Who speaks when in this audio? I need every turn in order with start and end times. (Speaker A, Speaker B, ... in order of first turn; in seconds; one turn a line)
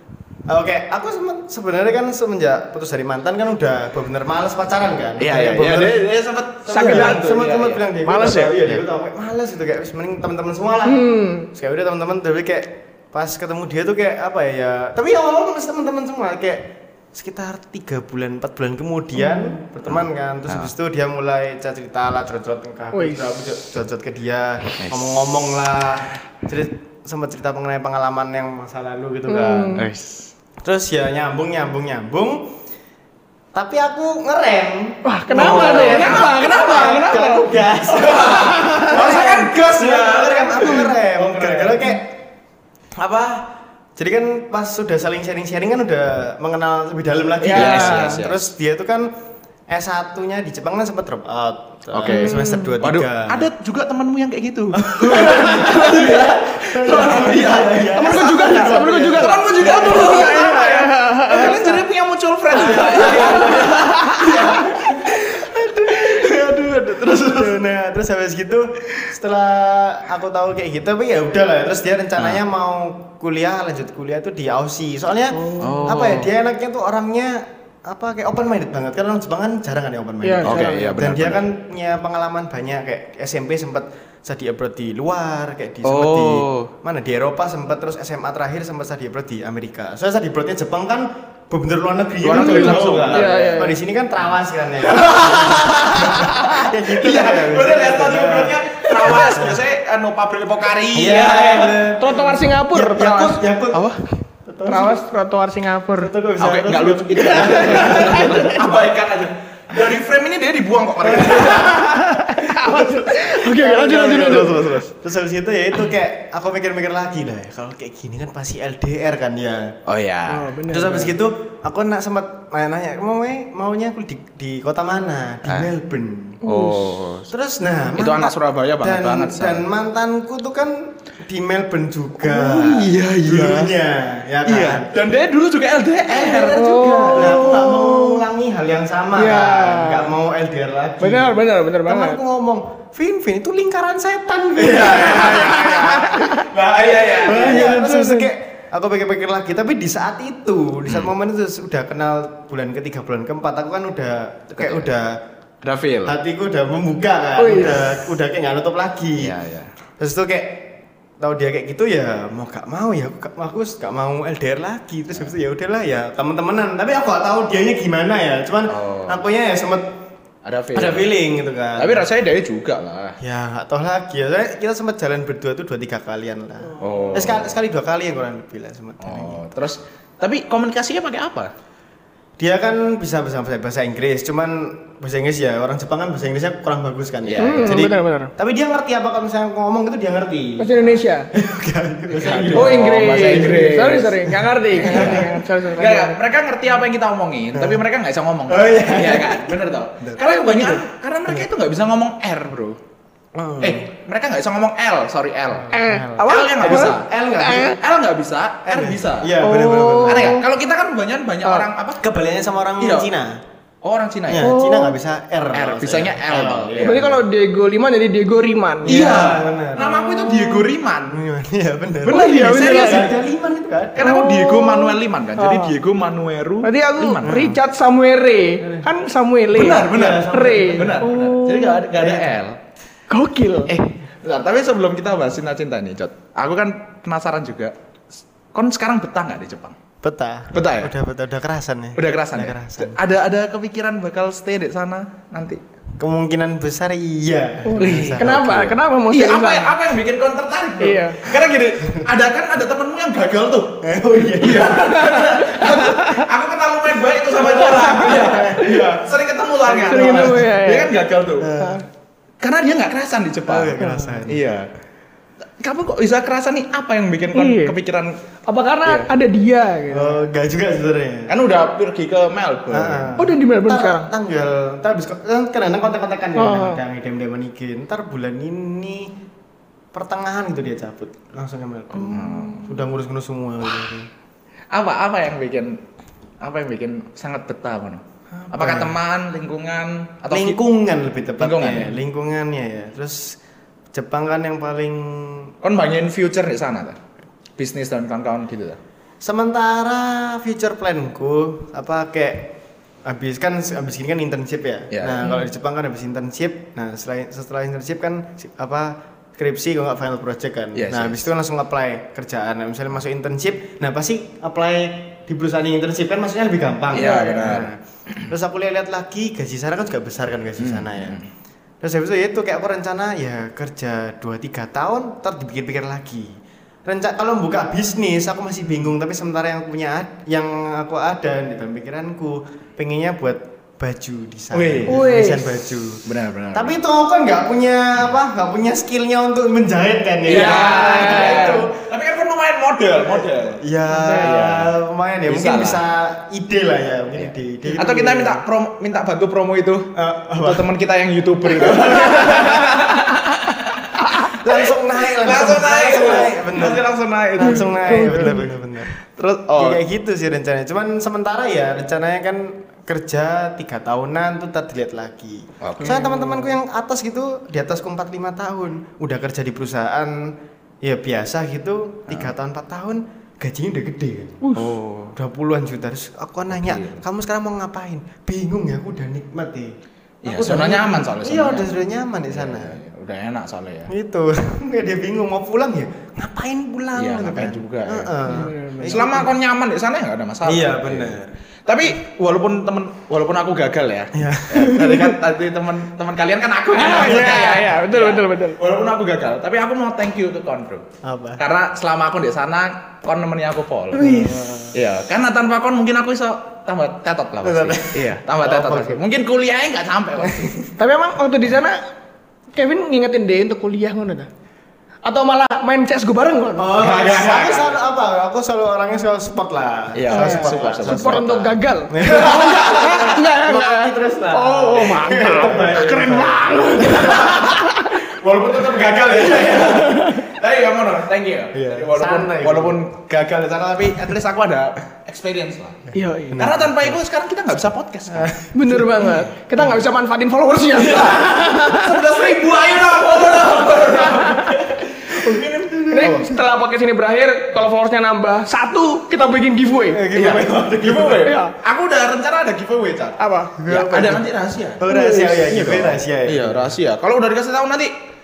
Speaker A: 0.5-6.0
Speaker B: 5.2-7.8
Speaker A: 6.7-29.9
Speaker C: 6.7-7.2
Speaker C: 8.0-8.6
Speaker C: 10.8-11.5
Speaker C: 19.2-19.6
Speaker B: 19.9-20.7
Speaker C: 22.9-23.3
Speaker B: 24.8-25.1
Speaker C: 29.3-29.9
Speaker B: 29.7-30.3
Speaker A: 30.6-32.6
Speaker A: 33.5-42.2
Speaker C: 35.0-37.5
Speaker B: 35.3-42.0
Speaker C: 38.1-39.0
Speaker A: 43.0-49.1
Speaker B: 47.4-48.5
Speaker C: 47.5-48.2
Speaker A: 49.7-53.5
Speaker B: 51.9-65.0
Speaker C: 52.0-52.7
Speaker A: 54.7-60.4
Speaker C: 57.9-61.8
Speaker A: 62.5-99.6
Speaker C: 62.6-64.5
Speaker B: 66.2-67.4
Speaker C: 75.3-75.8
Speaker B: 75.6-76.3
Speaker C: 80.2-80.9
Speaker B: 80.4-81.5
Speaker B: 85.8-86.7
Speaker B: 92.2-93.6
Speaker C: 92.3-93.8
Speaker B: 94.9-101.9
Speaker A: 100.9-103.9
Speaker C: 102.0-103.4
Speaker B: 103.7-104.0
Speaker A: 104.4-105.0
Speaker C: 104.7-106.1
Speaker A: 106.0-108.6
Speaker B: 106.4-111.9
Speaker C: 107.4-108.5
Speaker A: 111.2-111.5
Speaker C: 111.4-114.8
Speaker A: 112.6-119.8
Speaker B: 119.9-120.5
Speaker C: 120.3-121.2
Speaker A: 120.7-126.4
Speaker B: 126.4-127.3
Speaker C: 126.4-126.9
Speaker A: 127.3-134.9
Speaker B: 127.8-129.7
Speaker B: 132.2-133.7
Speaker B: 134.4-137.3
Speaker A: 136.1-146.2
Speaker C: 136.4-138.2
Speaker C: 139.2-140.1
Speaker C: 141.0-142.2
Speaker B: 144.6-147.8
Speaker C: 144.7-146.4
Speaker A: 146.7-155.2
Speaker C: 147.3-148.3
Speaker B: 154.5-154.8
Speaker B: 155.6-156.2
Speaker A: 156.0-159.3
Speaker C: 157.4-157.8
Speaker B: 159.2-159.7
Speaker A: 160.0-169.9
Speaker B: 168.7-169.3
Speaker B: 170.4-171.1
Speaker A: 170.7-172.1
Speaker B: 171.8-173.2
Speaker A: 173.2-179.4
Speaker B: 176.8-177.5
Speaker B: 179.0-181.5
Speaker A: 182.4-195.3
Speaker B: 187.2-187.9
Speaker C: 187.4-188.3
Speaker C: 190.6-191.3
Speaker B: 192.1-202.8
Speaker C: 192.5-196.2
Speaker A: 197.5-197.8
Speaker A: 198.5-200.1
Speaker C: 200.2-200.8
Speaker A: 203.3-203.9
Speaker B: 203.6-205.7
Speaker A: 205.5-207.8
Speaker C: 205.7-207.8
Speaker B: 206.2-209.4
Speaker A: 208.7-210.4
Speaker C: 209.4-210.4
Speaker B: 210.1-212.0
Speaker A: 212.0-213.4
Speaker B: 212.8-213.1
Speaker B: 213.8-214.5
Speaker A: 214.3-217.2
Speaker C: 214.4-214.9
Speaker B: 215.5-217.1
Speaker C: 216.8-219.1
Speaker A: 218.8-220.1
Speaker B: 218.8-221.2
Speaker C: 220.2-220.6
Speaker A: 221.1-224.1
Speaker C: 222.0-223.2
Speaker B: 222.1-223.1
Speaker B: 223.9-227.4
Speaker C: 224.0-225.7
Speaker C: 226.6-231.9
Speaker A: 227.2-227.6
Speaker A: 228.6-228.9
Speaker B: 229.5-232.6
Speaker A: 229.6-231.1
Speaker A: 231.9-232.3
Speaker C: 233.1-233.7
Speaker B: 233.7-237.7
Speaker B: 238.5-239.8
Speaker A: 240.0-243.0
Speaker B: 240.5-240.9
Speaker B: 241.9-245.6
Speaker A: 246.0-248.8
Speaker C: 247.7-249.8
Speaker B: 247.8-248.2
Speaker B: 249.1-261.6
Speaker C: 250.8-251.2
Speaker A: 251.8-252.1
Speaker A: 253.8-255.2
Speaker C: 254.7-256.2
Speaker A: 257.4-260.5
Speaker C: 257.5-258.9
Speaker C: 259.9-260.9
Speaker A: 261.4-261.8
Speaker B: 262.4-264.7
Speaker A: 263.4-264.5
Speaker C: 263.8-264.2
Speaker B: 265.6-268.1
Speaker C: 267.3-267.8
Speaker C: 268.5-270.2
Speaker B: 268.8-269.1
Speaker A: 269.9-271.3
Speaker B: 271.3-273.1
Speaker A: 272.7-279.1
Speaker C: 273.2-274.1
Speaker C: 276.4-276.8
Speaker A: 279.9-284.1
Speaker B: 281.9-282.8
Speaker B: 284.7-285.8
Speaker B: 286.4-290.6
Speaker A: 288.3-289.0
Speaker A: 290.3-293.4
Speaker B: 291.4-291.9
Speaker A: 293.9-295.5
Speaker B: 295.6-297.0
Speaker B: 297.6-298.8
Speaker A: 299.2-321.2
Speaker B: 304.9-305.3
Speaker B: 310.7-311.3
Speaker B: 316.9-317.7
Speaker B: 320.6-321.2
Speaker A: 321.8-341.7
Speaker B: 334.5-335.0
Speaker C: 334.9-335.5
Speaker B: 336.0-336.8
Speaker B: 340.2-344.7
Speaker C: 340.3-341.6
Speaker A: 343.2-348.4
Speaker C: 343.9-344.4
Speaker B: 345.3-345.8
Speaker B: 347.2-354.4
Speaker A: 349.9-350.6
Speaker A: 351.6-352.8
Speaker A: 354.3-358.9
Speaker B: 355.1-358.4
Speaker C: 357.4-358.5
Speaker B: 359.2-359.8
Speaker A: 359.4-374.5
Speaker B: 365.6-366.0
Speaker C: 365.8-366.5
Speaker C: 374.4-374.7
Speaker B: 374.5-375.1
Speaker A: 375.1-379.7
Speaker B: 376.5-377.0
Speaker B: 380.2-383.9
Speaker A: 380.2-382.8
Speaker A: 383.9-389.3
Speaker B: 386.9-388.1
Speaker C: 388.3-389.1
Speaker B: 388.8-400.9
Speaker A: 390.4-391.3
Speaker A: 394.1-395.2
Speaker C: 396.7-398.6
Speaker A: 401.0-401.4
Speaker B: 401.4-410.6
Speaker A: 404.0-404.7
Speaker C: 404.0-404.5
Speaker A: 407.4-409.0
Speaker A: 410.2-410.8
Speaker C: 410.8-411.8
Speaker C: 412.5-414.3
Speaker C: 415.0-416.7
Speaker A: 416.6-421.3
Speaker B: 416.8-417.8
Speaker B: 419.9-423.1
Speaker C: 420.1-428.0
Speaker A: 421.9-427.2
Speaker B: 425.3-438.3
Speaker C: 429.4-430.2
Speaker A: 431.5-432.8
Speaker C: 435.9-436.4
Speaker A: 436.3-436.9
Speaker A: 438.1-439.7
Speaker C: 438.5-442.3
Speaker B: 440.8-446.2
Speaker C: 444.0-444.6
Speaker C: 445.2-450.1
Speaker A: 445.7-446.4
Speaker A: 449.9-451.3
Speaker B: 450.1-454.9
Speaker C: 451.2-451.5
Speaker C: 453.2-453.5
Speaker A: 453.6-456.8
Speaker C: 454.9-455.5
Speaker B: 455.4-457.9